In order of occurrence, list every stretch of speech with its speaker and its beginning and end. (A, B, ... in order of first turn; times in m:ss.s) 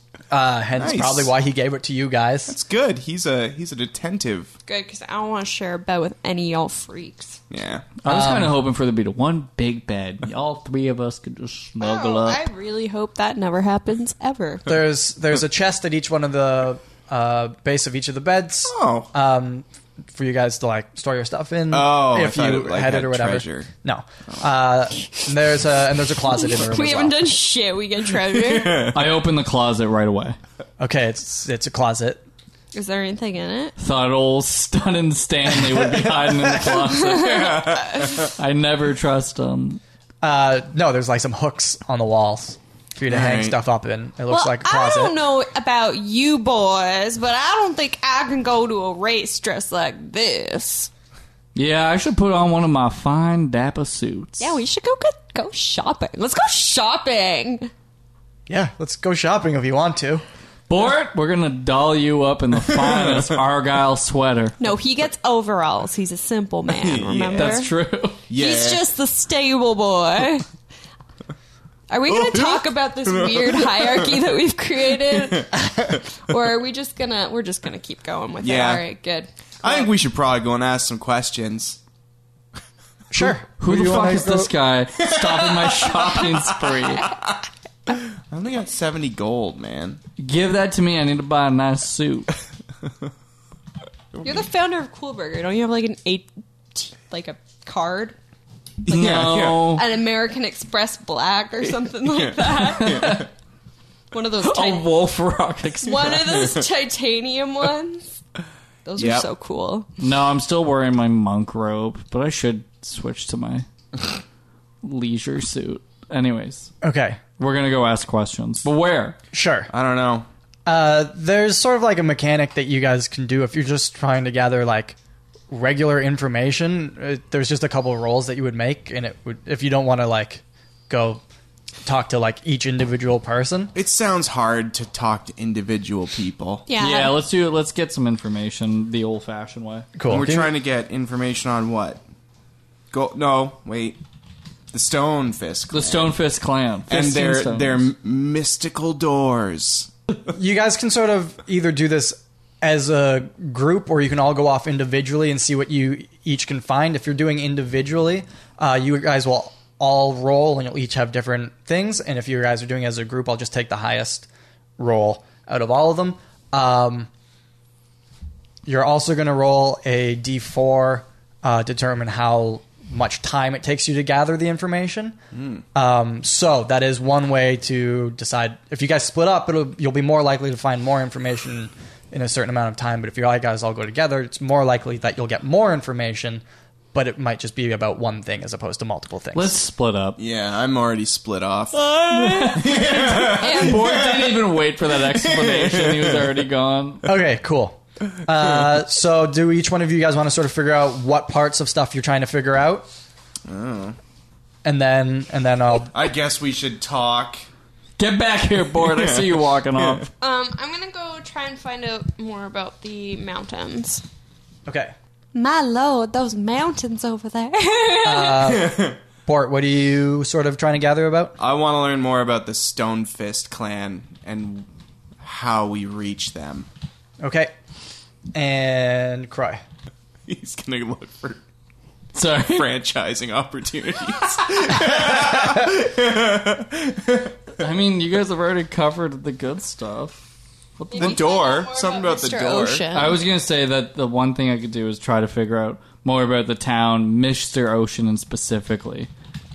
0:00.3-0:02.6 A
0:00.8-0:01.3 B
0:02.5-0:04.5 B
0:04.7-0:07.4 C
0:07.5-0:07.9 B
0:08.0-0:12.4 D
0:08.0-0:08.6 A
0:11.8-0:14.7 C
0:14.7-0:27.2 A
0:18.7-0:19.1 B
0:21.7-0:23.7 B
0:26.4-0:28.8 C
0:28.3-0:29.2 B
0:28.9-0:30.4 D
0:30.8-0:32.2 A
0:32.7-0:33.8 C
0:33.8-0:39.8 D
0:36.8-0:38.1 C
0:37.1-0:38.3 B
0:40.2-0:45.1 A
0:43.1-0:43.6 B
0:44.3-0:50.9 C
0:51.6-0:54.5 D
0:54.4-0:57.7 C
0:58.5-1:00.2 A
1:00.7-1:04.6 D
1:02.6-1:03.4 B
1:04.6-1:07.7 C
1:06.7-1:07.7 B
1:07.4-1:08.2 D
1:08.3-1:08.9 B
1:08.3-1:10.5 C
1:11.9-1:19.9 C
1:12.1-1:14.3 B
1:15.1-1:15.6 B
1:18.4-1:18.8 B
1:19.6-1:21.8 B
1:23.1-1:24.5 A
1:23.2-1:27.1 D
1:25.1-1:26.5 B
1:25.9-1:27.1 C
1:27.1-1:27.3 B
1:27.9-1:30.0 B
1:30.2-1:32.3 D
1:34.2-1:38.2 C
1:38.8-1:39.8 B
1:38.9-1:39.8 D
1:39.5-1:43.3 C
1:42.0-1:43.3 B
1:42.8-1:43.3 D
1:44.1-1:44.9 C
1:44.4-1:46.5 D
1:45.8-1:48.2 C
1:48.8-1:49.9 C
1:49.0-1:49.3 B
1:50.0-1:53.7 D
1:54.8-1:56.7 D
1:56.8-1:57.2 A
1:57.4-1:59.2 D
1:59.3-1:59.7 A
1:59.7-2:00.3 B
2:00.7-2:05.0 A
2:05.5-2:11.2 A
2:11.8-2:13.7 A
2:13.8-2:16.7 B
2:16.7-2:17.2 C
2:16.8-2:19.9 D
2:20.0-2:20.5 A
2:20.1-2:22.0 B
2:22.9-2:24.0 B
2:24.7-2:26.2 B
2:25.7-2:27.8 D
2:26.9-2:29.9 B
2:30.3-2:44.3 A
2:44.8-2:47.1 A
2:48.7-2:55.2 A
2:55.3-2:55.6 B
2:55.8-3:06.4 A
3:06.9-3:09.6 A
3:09.4-3:10.2 D
3:10.2-3:11.8 B
3:11.7-3:17.1 D
3:12.1-3:14.1 C
3:12.5-3:16.5 B
3:17.0-3:22.9 A
3:23.5-3:24.0 B
3:24.6-3:25.9 A
3:25.9-3:27.4 B
3:28.0-3:30.1 D
3:28.7-3:30.1 B
3:30.2-3:34.0 C
3:34.7-3:34.9 A
3:35.3-3:38.5 C
3:38.0-3:41.4 A
3:38.4-3:39.0 B
3:41.4-3:44.7 B
3:45.2-3:46.7 B
3:47.2-3:47.5 A
3:48.3-3:49.6 A
3:50.3-3:51.4 B
3:52.1-3:52.7 D
3:52.5-3:57.6 B
3:57.6-4:00.3 D
4:00.8-4:01.2 D
4:00.9-4:03.2 C
4:00.9-4:02.9 B
4:02.9-4:09.1 D